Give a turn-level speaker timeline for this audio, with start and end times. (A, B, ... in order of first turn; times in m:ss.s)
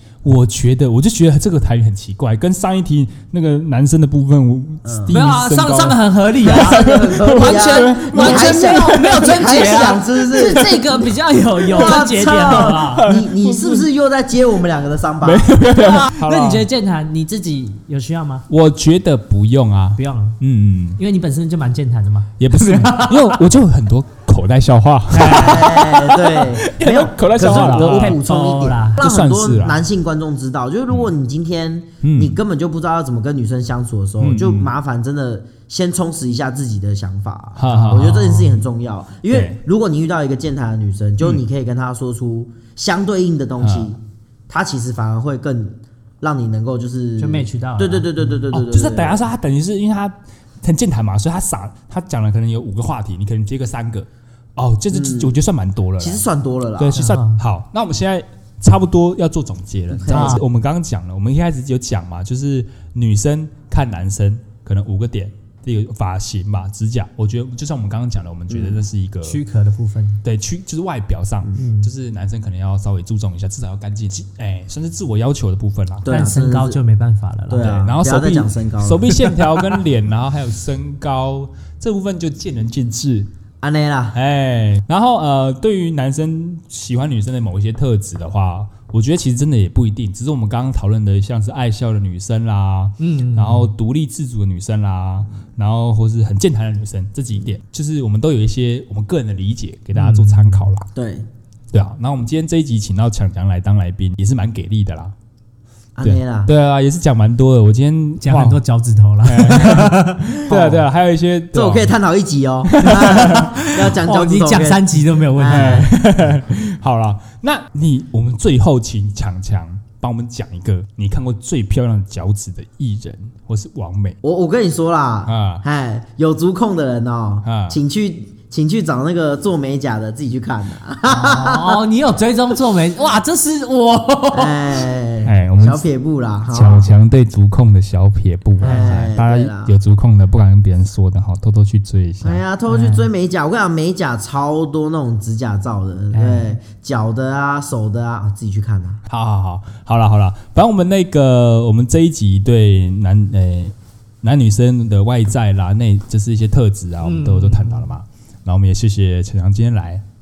0:00.2-0:10.6 A
0:04.8-0:05.2 B
0:05.1-0:13.2 C
0:06.4-0:10.8 B
0:11.7-0:15.5 B
0:11.7-0:13.8 A
0:15.2-0:16.7 A
0:15.7-0:18.5 C
0:18.5-0:21.0 A
0:20.0-0:20.4 C
0:21.0-0:23.4 C
0:22.4-0:28.2 A
0:25.1-0:25.8 C
0:25.3-0:49.2 B
0:27.4-0:29.0 C
0:29.0-0:29.8 A
0:32.0-0:32.4 A
0:34.2-0:34.7 A
0:37.6-0:38.5 A
0:37.7-0:38.6 C
0:39.3-0:39.6 A
0:43.6-0:43.9 A
0:47.2-0:48.2 C
0:48.5-0:56.2 A
0:54.9-0:55.4 B
0:56.0-0:57.0 B
0:56.8-1:09.4 A
0:56.9-0:57.4 C
0:59.9-1:00.4 B
1:00.1-1:00.4 C
1:08.5-1:08.8 B
1:09.2-1:10.2 C
1:10.2-1:16.3 A
1:11.6-1:11.9 C
1:16.0-1:16.8 B
1:16.1-1:17.8 C
1:17.5-1:19.2 B
1:17.6-1:23.3 A
1:23.6-1:24.2 B
1:24.1-1:40.9 A
1:33.0-1:33.7 C
1:39.9-1:40.7 C
1:40.9-1:41.3 B
1:41.7-1:45.1 A
1:46.0-1:46.5 B
1:46.0-1:48.6 A
1:48.2-1:50.7 C
1:49.2-1:52.0 A
1:50.5-1:50.8 B
1:51.5-1:55.9 B
1:52.6-1:53.5 A
1:52.8-1:55.9 C
1:55.5-2:04.2 A
2:04.2-2:11.8 B
2:05.3-2:05.6 A
2:07.4-2:07.8 A
2:11.1-2:14.8 C
2:14.3-2:16.9 B
2:15.2-2:15.8 A
2:16.5-2:22.4 A
2:18.6-2:19.8 B
2:18.6-2:19.0 C
2:22.2-2:29.0 B
2:22.7-2:23.1 C
2:26.1-2:26.6 C
2:29.1-2:40.0 A
2:37.0-2:37.9 C